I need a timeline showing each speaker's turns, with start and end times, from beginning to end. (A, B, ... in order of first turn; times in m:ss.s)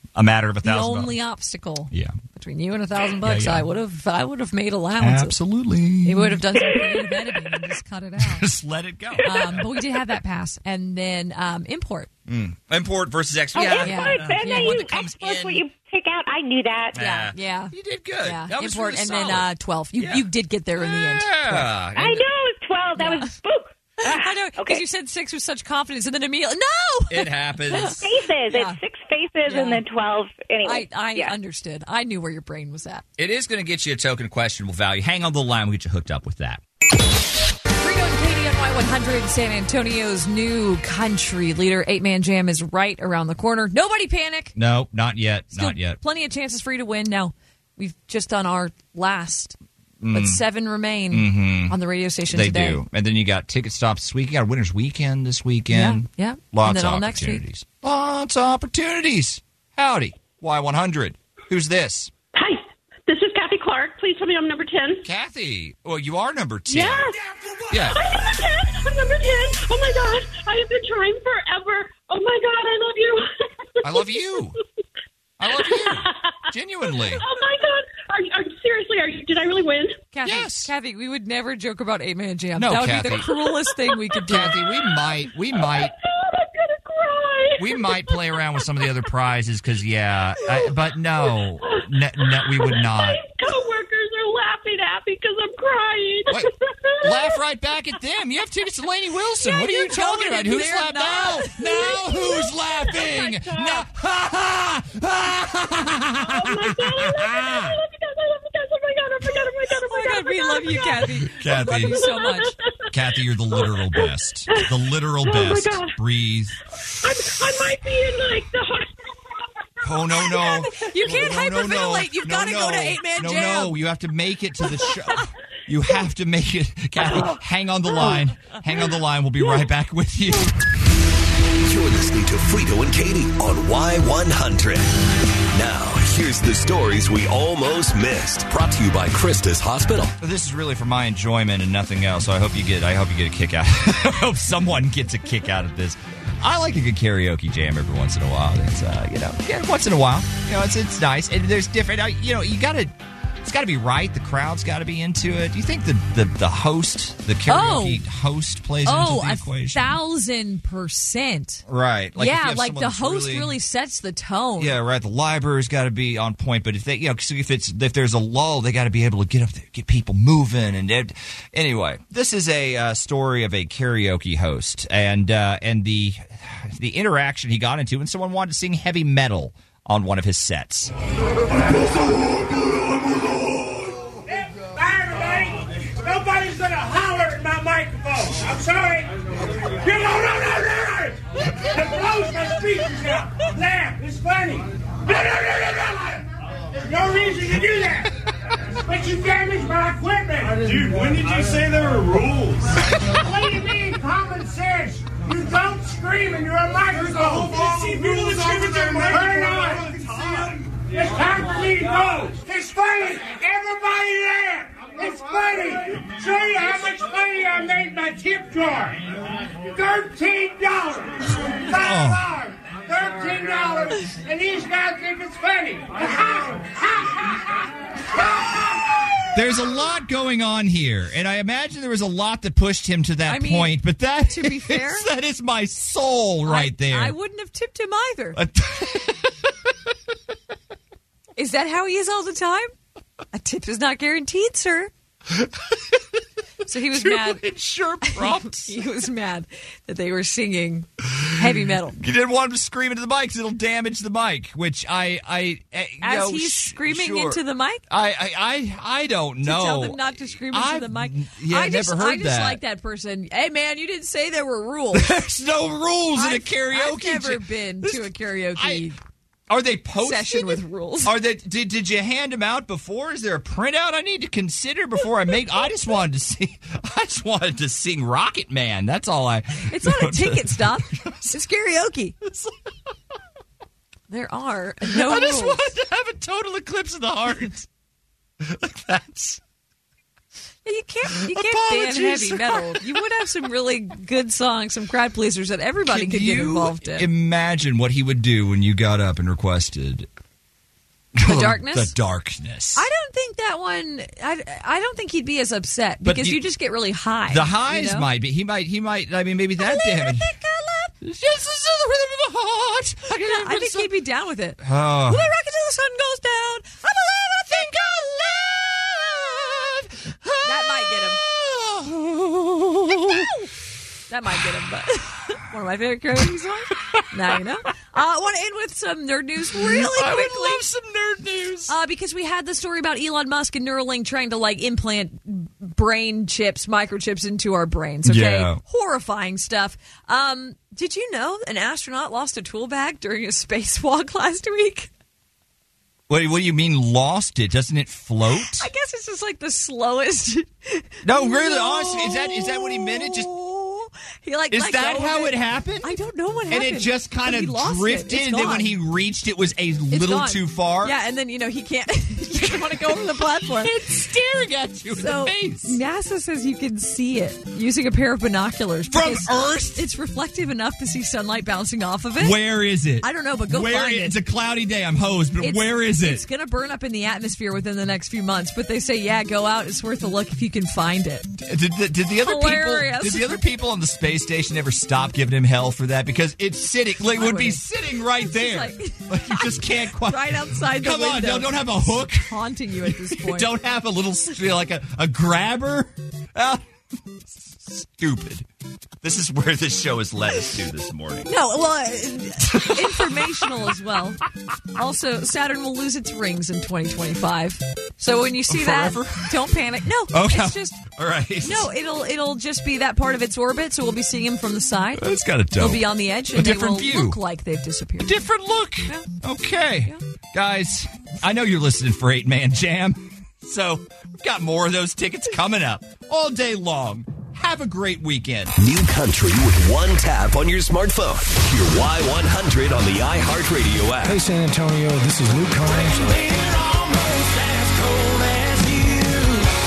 0:00.2-0:01.1 A
0:00.6-0:05.4 B
0:01.9-0:02.2 A
0:03.2-0:03.7 A
0:05.0-0:06.8 A
0:06.0-0:08.5 B
0:08.2-0:09.7 A
0:09.2-0:12.1 B
0:12.3-0:15.6 A
0:13.5-0:17.0 C
0:13.7-0:15.0 B
0:17.0-0:20.3 A
0:17.0-0:21.7 B
0:20.8-0:22.2 A
0:22.0-0:24.8 C
0:23.0-0:23.3 B
0:24.0-0:28.8 B
0:27.1-0:28.0 A
0:27.8-0:31.3 C
0:29.5-0:29.8 B
0:30.6-0:33.0 B
0:33.2-0:36.6 A
0:37.8-0:44.6 B
0:44.6-0:46.0 A
0:45.5-0:49.6 B
0:50.0-0:50.4 A
0:50.1-0:52.8 B
0:51.1-0:51.8 A
0:52.3-1:02.1 A
0:55.7-0:57.4 B
1:05.0-1:07.1 A
1:07.7-1:08.1 A
1:13.8-1:14.6 A
1:15.4-1:17.2 A
1:20.1-1:24.6 B
1:20.2-1:20.7 A
1:22.6-1:23.3 A
1:24.2-1:25.9 A
1:27.6-1:33.2 A
1:37.0-1:47.8 A
1:39.4-1:42.0 B
1:49.8-1:52.6 B
1:51.0-1:52.0 A
1:52.9-1:56.6 A
1:59.8-2:10.5 A
2:00.3-2:03.8 B
2:11.6-2:14.9 D
2:15.5-2:20.2 D
2:20.2-2:39.9 A
2:37.5-2:38.0 B
2:38.8-2:41.6 B
2:41.7-2:43.5 A
2:42.2-2:44.8 B
2:44.6-3:00.9 A
3:04.3-3:09.1 E
3:09.6-3:18.1 E
3:18.7-3:20.7 E
3:20.6-3:22.6 F
3:23.1-3:39.0 E
3:27.4-3:29.1 F
3:39.7-3:47.4 E
3:41.7-3:42.3 A
3:48.1-3:49.0 E
3:49.3-3:57.2 A
3:53.3-3:55.1 B
3:56.5-3:58.4 B
3:58.4-3:59.3 A
4:01.4-4:02.7 B
4:03.3-4:04.9 B
4:05.3-4:06.0 A
4:06.7-4:07.4 B
4:06.9-4:08.8 A
4:08.0-4:12.0 B
4:12.0-4:22.6 A
4:16.0-4:17.8 B
4:19.4-4:25.1 B
4:24.9-4:28.9 A
4:26.2-4:29.0 B
4:29.5-4:41.4 A
4:30.0-4:31.2 B
4:39.7-4:42.2 B
4:42.2-4:42.6 A
4:44.1-4:45.6 B
4:44.9-4:47.7 A
4:48.4-4:49.4 A
4:50.6-4:57.1 B
4:51.1-4:53.0 A
4:55.8-5:00.1 A
5:01.2-5:02.9 A
5:01.3-5:01.9 B
5:02.8-5:08.1 B
5:06.0-5:06.4 A
5:07.3-5:10.3 A
5:09.6-5:11.0 B
5:11.0-5:13.9 A
5:13.2-5:17.5 B
5:14.6-5:15.3 A
5:17.4-5:23.3 A
5:20.4-5:21.2 B
5:23.1-5:23.5 B
5:24.1-5:30.6 B
5:29.5-5:31.7 A
5:31.7-5:44.9 B
5:38.0-5:38.6 A
5:46.1-5:48.7 A
5:48.3-5:58.8 B
5:51.0-5:53.3 A
5:54.5-5:55.9 A
5:56.5-6:01.0 A
5:59.9-6:03.8 B
6:02.4-6:05.8 A
6:04.9-6:12.4 B
6:08.9-6:09.9 A
6:12.2-6:16.2 A
6:13.0-6:14.2 B
6:15.4-6:21.3 B
6:21.4-6:36.6 A
6:22.2-6:23.4 B
6:27.2-6:33.5 B
6:37.5-6:38.5 A
6:39.0-6:41.3 A
6:41.3-6:44.2 B
6:42.5-6:43.3 A
6:44.8-6:50.8 B
6:48.5-6:49.4 A
6:50.1-6:51.7 A
6:51.4-6:55.0 B
6:55.0-6:57.2 A
6:55.6-6:58.2 B
6:58.0-7:08.5 A
7:08.6-7:14.2 D
7:14.0-7:19.4 G
7:15.7-7:16.1 D